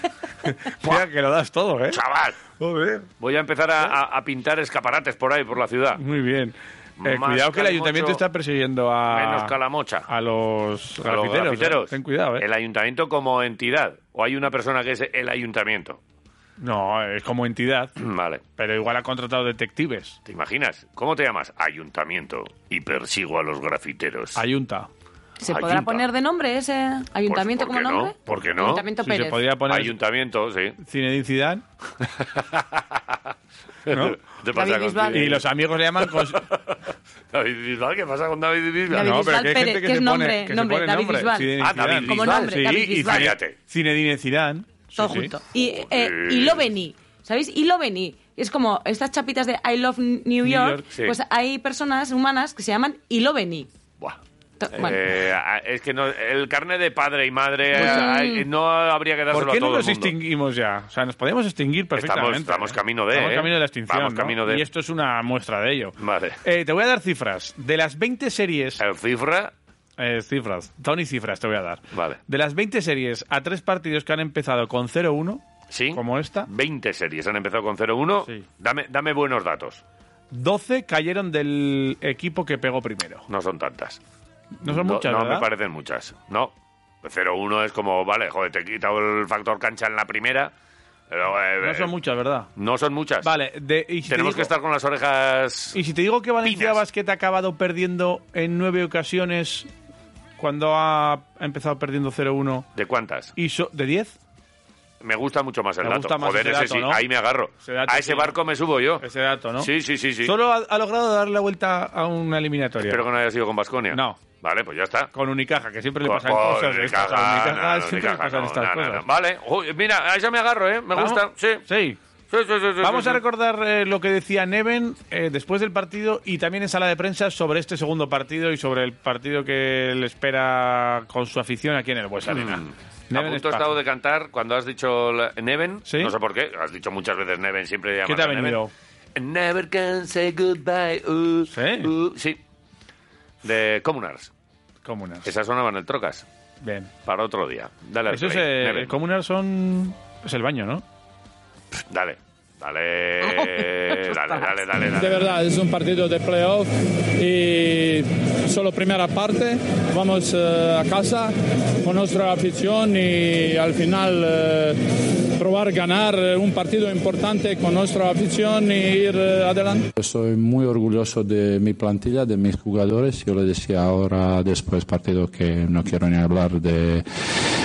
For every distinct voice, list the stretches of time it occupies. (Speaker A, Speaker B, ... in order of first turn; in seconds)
Speaker A: 0.4-2.0, 2.6-3.0, 6.0-9.5, 10.1-12.4, 16.6-17.9, 18.6-20.2, 24.4-24.9, 29.0-29.9, 30.8-31.6, 33.9-34.2, 35.1-36.5, 38.9-45.3, 50.4-50.8, 57.8-58.0, 59.3-68.8, 70.0-75.4, 75.9-76.5, 80.3-83.2, 84.6-85.5, 91.6-92.5, 93.2-94.5, 95.7-99.7, 100.4-102.7, 103.3-104.1, 105.8-107.0, 107.6-108.3, 109.0-109.7, 110.2-113.0, 113.9-114.2, 115.1-119.0, 121.0-122.0, 122.8-133.7, 135.9-136.1, 138.0-138.7, 141.5-141.9, 144.8-145.2, 146.6-146.9, 148.1-150.8
Speaker B: 1.9-2.4, 3.2-6.0, 7.0-8.2, 9.1-10.1, 11.0-16.0, 18.0-18.4, 20.2-24.4, 25.4-26.0, 27.2-28.9, 29.7-30.8, 32.2-33.2, 33.9-35.4, 36.0-36.8, 37.3-39.2, 41.6-43.5, 45.5-46.7, 54.7-60.1, 62.0-64.6, 66.0-66.4, 68.8-69.5, 71.9-72.2, 75.7-79.8, 83.3-84.0, 84.6-90.5, 91.1-91.9, 92.5-93.3, 94.1-95.8, 96.4-96.8, 102.7-103.3, 105.0-109.0, 109.6-110.3, 112.8-115.1, 116.0-121.7, 122.3-123.2, 132.3-138.6, 139.2-142.4, 143.4-144.3, 145.2-146.2, 147.1-148.9, 151.9-155.4
Speaker C: 25.4-29.4, 34.5-35.3, 38.9-43.3, 45.0-53.7, 54.6-55.0, 57.7-58.4, 153.3-154.3
Speaker D: 154.9-164.8, 165.3-169.9
Speaker E: 170.0-177.1